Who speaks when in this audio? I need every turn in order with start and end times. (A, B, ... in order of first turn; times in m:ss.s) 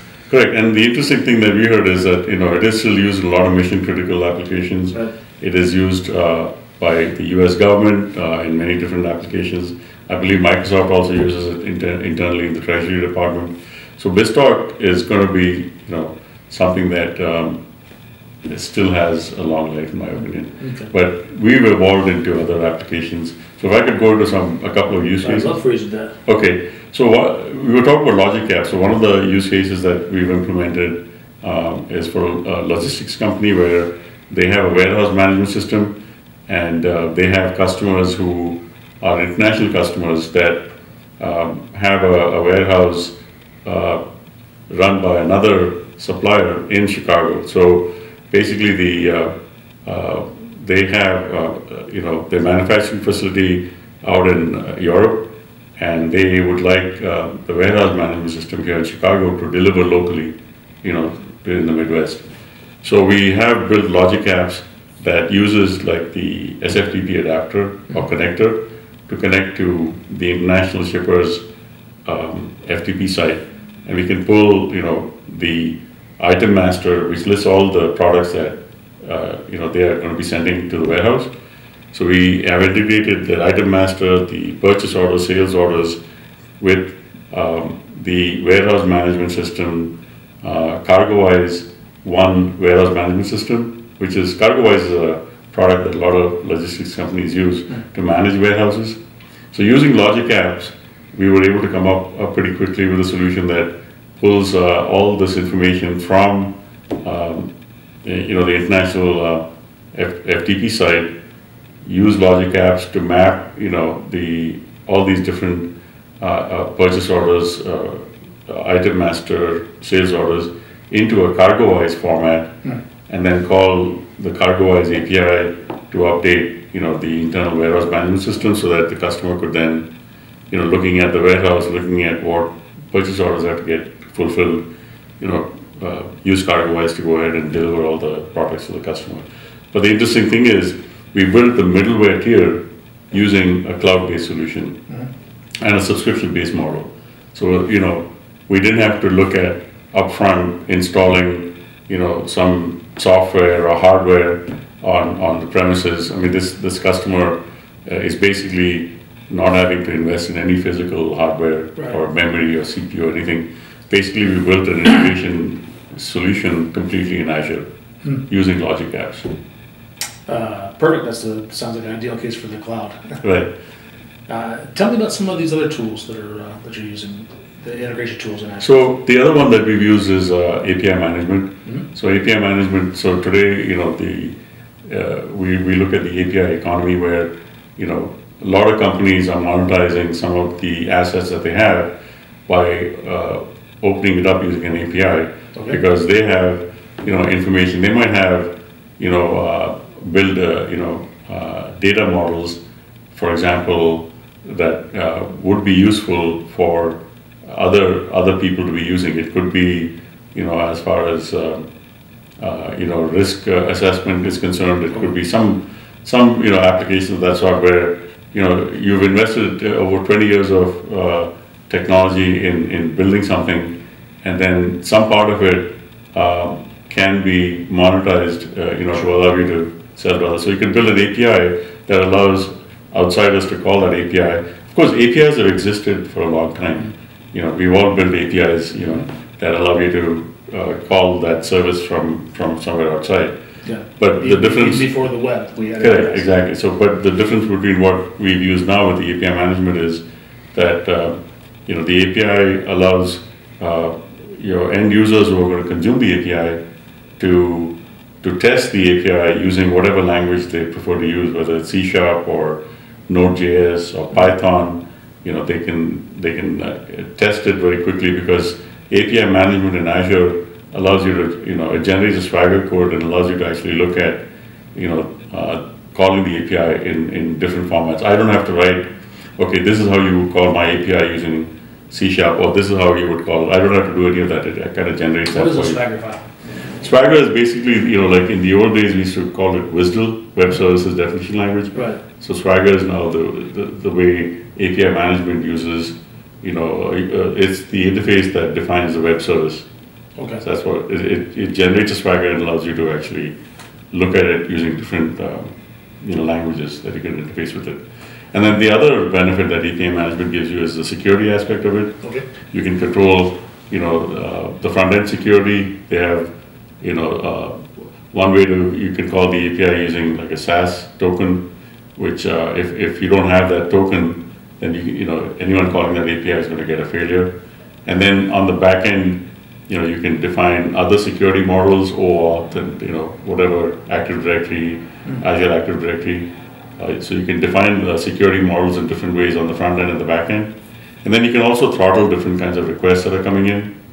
0:00.3-0:17.6 A
0:18.5-0:25.5 A
0:20.6-0:20.9 B
0:25.2-0:26.2 B
0:26.2-0:44.0 A
0:44.7-0:49.3 A
0:49.8-1:02.2 A
1:02.8-1:11.4 A
1:12.0-1:21.3 A
1:21.9-1:26.0 A
1:26.6-1:39.0 A
1:39.5-1:47.5 A
1:48.0-1:51.1 A
1:51.8-2:02.5 A
2:03.1-2:09.9 A
2:10.5-2:14.6 A
2:15.2-2:24.8 A
2:25.6-2:47.6 A
2:48.3-2:49.3 A
2:50.3-2:53.2 B
2:53.2-2:53.5 A
2:54.3-2:58.7 B
2:58.6-3:11.9 A
3:12.5-3:22.6 A
3:15.5-3:15.8 B
3:23.1-3:31.7 A
3:32.4-4:03.3 A
4:03.6-4:06.2 B
4:04.0-4:04.8 A
4:05.8-4:16.6 A
4:17.2-4:34.2 A
4:34.7-4:45.8 A
4:45.3-4:46.2 B
4:46.8-4:59.6 A
4:51.7-4:52.0 B
5:00.4-5:03.3 A
5:03.9-5:05.5 A
5:06.0-5:07.8 A
5:08.3-5:16.3 A
5:16.8-5:21.4 A
5:22.0-5:27.3 A
5:27.8-5:40.5 A
5:41.0-5:43.7 A